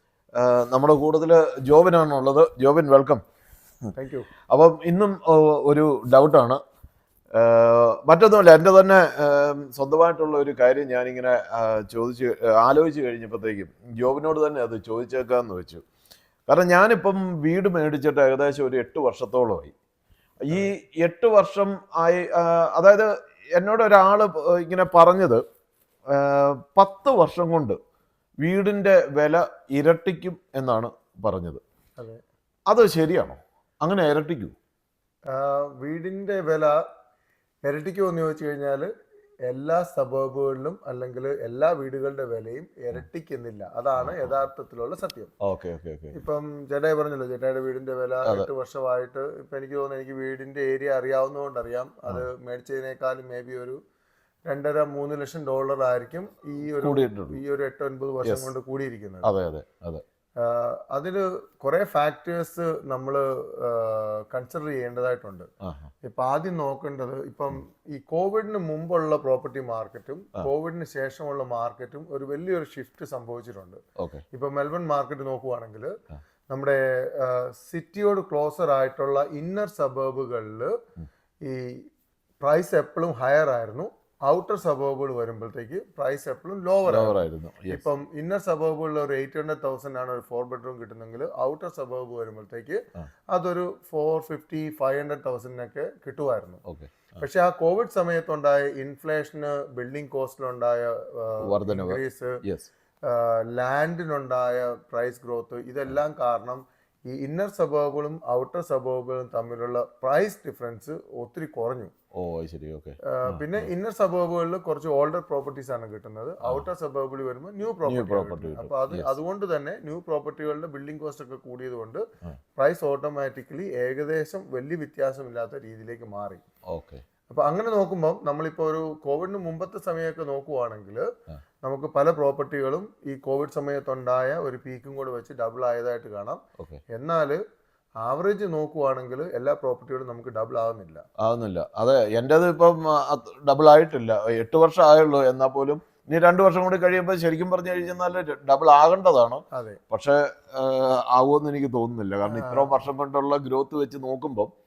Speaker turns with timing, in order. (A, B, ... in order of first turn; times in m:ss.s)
0:00.4-0:03.2 A
0:03.9-0:04.3 B
0:04.5-0:06.6 A
0:07.4-0:15.8 A
0:16.5-0:19.7 A
0:20.4-0:25.4 A
0:26.1-0:27.8 A
0:28.4-0:31.6 A
0:32.7-0:34.5 A
0:35.3-0:36.8 B
0:37.6-0:38.9 B
0:39.5-0:45.3 B
0:44.0-0:44.4 A
0:45.4-0:46.2 A
0:46.1-0:53.8 B
0:54.5-0:59.3 B
0:56.7-0:57.4 A
0:58.2-0:58.5 A
0:59.2-1:00.0 A
1:00.4-1:05.5 B
1:05.6-1:05.9 A
1:06.0-1:13.8 B
1:14.0-1:14.2 A
1:14.3-1:15.9 B
1:16.5-1:20.7 B
1:21.4-1:21.9 B
1:22.4-1:36.6 B
1:26.9-1:27.8 A
1:36.6-1:37.2 A
1:37.2-1:42.4 B
1:41.4-1:42.7 A
1:43.0-1:51.9 B
1:52.1-1:53.7 A
1:53.0-2:02.0 B
1:57.9-1:59.1 A
2:02.6-2:06.4 B
2:06.7-2:07.0 A
2:07.3-2:11.1 B
2:11.6-2:17.4 B
2:18.0-2:21.0 B
2:21.2-2:34.5 A
2:29.5-2:29.8 B
2:32.2-2:32.8 B